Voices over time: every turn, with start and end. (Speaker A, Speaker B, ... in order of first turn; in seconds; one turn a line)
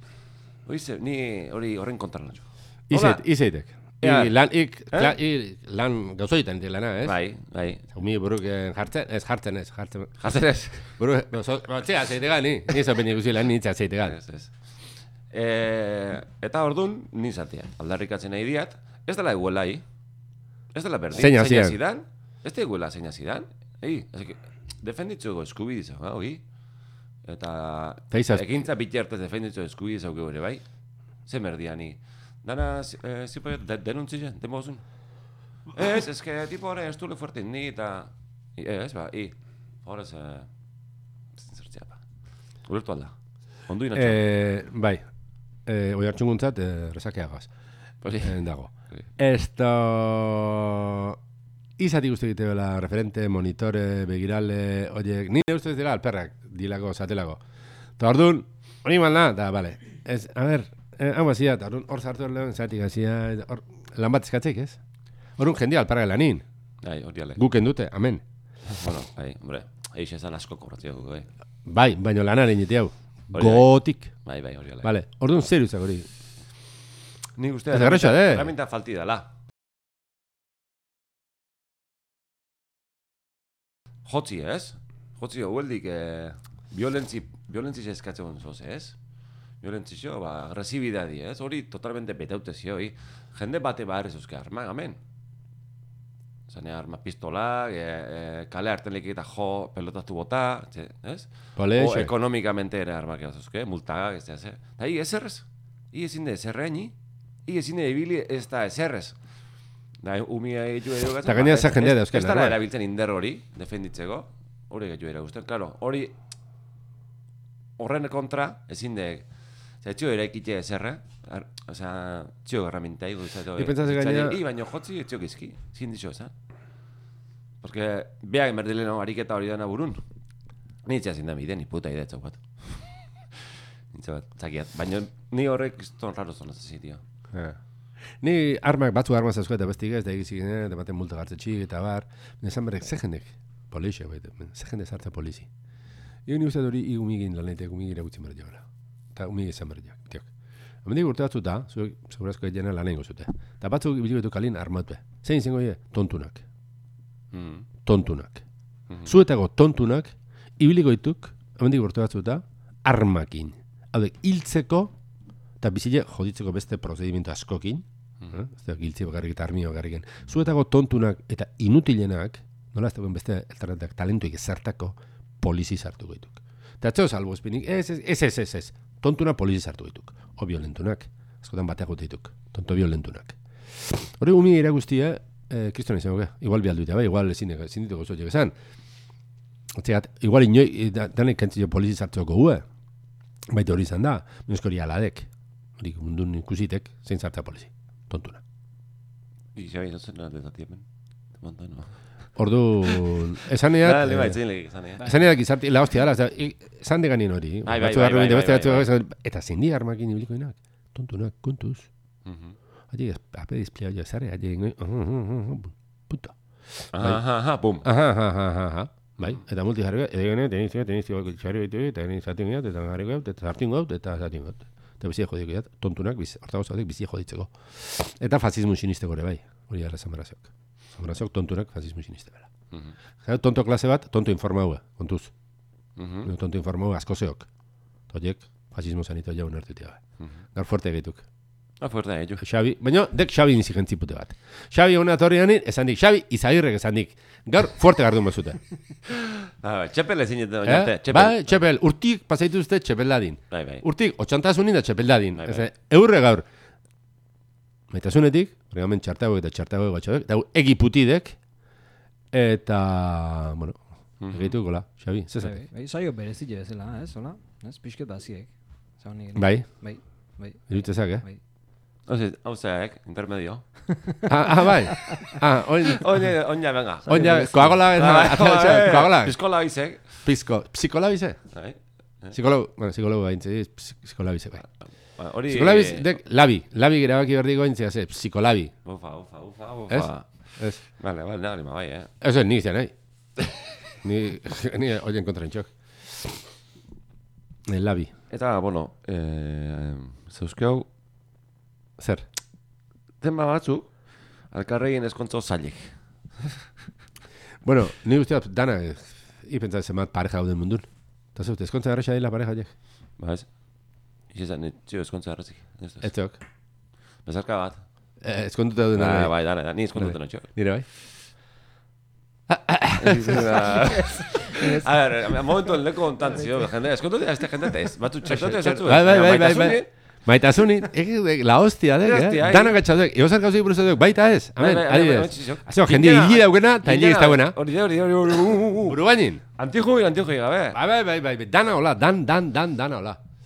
Speaker A: 0.7-3.2
Speaker B: 2.9-7.2
Speaker A: 4.0-4.3
Speaker A: 7.0-7.8
Speaker B: 7.9-10.3
Speaker A: 10.2-10.9
Speaker B: 11.0-14.2
Speaker A: 14.1-14.6
Speaker A: 15.3-19.9
Speaker A: 20.7-26.4
Speaker B: 21.1-21.8
Speaker A: 27.2-30.6
Speaker B: 28.1-28.5
Speaker A: 31.3-34.8
Speaker A: 35.7-40.5
Speaker A: 41.4-42.0
Speaker A: 42.7-43.1
Speaker A: 43.7-44.2
Speaker B: 43.9-45.0
Speaker B: 45.7-47.5
Speaker A: 48.0-48.4
Speaker B: 48.2-51.2
Speaker B: 51.8-57.4
Speaker B: 58.0-64.8
Speaker B: 65.4-66.4
Speaker A: 66.8-67.4
Speaker B: 67.4-68.2
Speaker A: 68.7-71.3
Speaker B: 71.7-74.1
Speaker A: 73.3-73.7
Speaker A: 74.2-74.9
Speaker B: 74.8-76.1
Speaker A: 77.4-79.3
Speaker B: 77.7-78.5
Speaker A: 84.0-89.0
Speaker A: 89.6-95.0
Speaker A: 96.5-106.9
Speaker B: 101.6-102.1
Speaker A: 107.5-109.2
Speaker A: 110.0-116.2
Speaker B: 111.2-112.6
Speaker A: 117.8-119.3
Speaker A: 119.8-126.3
Speaker B: 123.6-124.4
Speaker A: 127.6-130.0
Speaker A: 130.8-137.0
Speaker B: 137.3-137.6
Speaker B: 138.2-145.5
Speaker B: 146.3-150.3
Speaker B: 150.8-156.4
Speaker A: 157.3-157.7
Speaker B: 157.8-158.4
Speaker A: 158.9-159.1
Speaker B: 159.1-164.9
Speaker B: 165.6-188.5
Speaker B: 189.8-192.6
Speaker B: 193.5-198.4
Speaker A: 199.6-200.8
Speaker A: 201.4-201.9
Speaker B: 202.4-204.4
Speaker A: 202.9-203.2
Speaker A: 203.7-205.1
Speaker B: 205.0-211.9
Speaker A: 207.7-208.9
Speaker A: 212.2-212.6
Speaker B: 212.9-217.2
Speaker A: 216.9-217.9
Speaker B: 217.8-232.5
Speaker B: 233.2-235.3
Speaker A: 236.0-236.3
Speaker B: 236.2-237.5
Speaker B: 238.1-240.0
Speaker B: 240.6-241.2
Speaker A: 241.8-242.4
Speaker B: 242.4-248.6
Speaker A: 249.1-251.6
Speaker B: 250.7-256.5
Speaker A: 253.5-253.8
Speaker A: 255.4-255.7
Speaker B: 257.9-261.4
Speaker B: 262.3-265.6
Speaker A: 264.2-264.6
Speaker C: 265.4-270.6
Speaker B: 269.4-269.7
Speaker B: 270.7-271.2
Speaker A: 272.1-273.6
Speaker C: 274.1-275.3
Speaker B: 274.3-276.2
Speaker A: 275.8-280.2
Speaker C: 277.1-277.8
Speaker B: 277.1-279.4
Speaker B: 280.2-281.4
Speaker A: 281.5-282.3
Speaker B: 282.3-284.6
Speaker A: 285.2-286.2
Speaker B: 285.5-288.7
Speaker A: 288.9-290.3
Speaker B: 289.9-290.8
Speaker A: 290.9-292.1
Speaker B: 292.2-292.9
Speaker B: 294.0-296.4
Speaker B: 297.7-298.1
Speaker A: 298.3-300.9
Speaker B: 302.0-302.3
Speaker A: 303.2-303.9
Speaker A: 304.5-306.7
Speaker B: 307.6-312.7
Speaker A: 313.2-313.5
Speaker A: 314.3-316.1
Speaker B: 316.0-316.4
Speaker A: 317.2-317.8
Speaker B: 318.2-319.3
Speaker A: 318.9-320.5
Speaker B: 320.0-320.9
Speaker B: 322.5-324.8
Speaker A: 323.0-329.9
Speaker B: 328.3-337.6
Speaker A: 332.0-332.8
Speaker A: 334.6-339.0
Speaker B: 338.9-339.4
Speaker A: 339.6-340.8
Speaker B: 340.7-343.2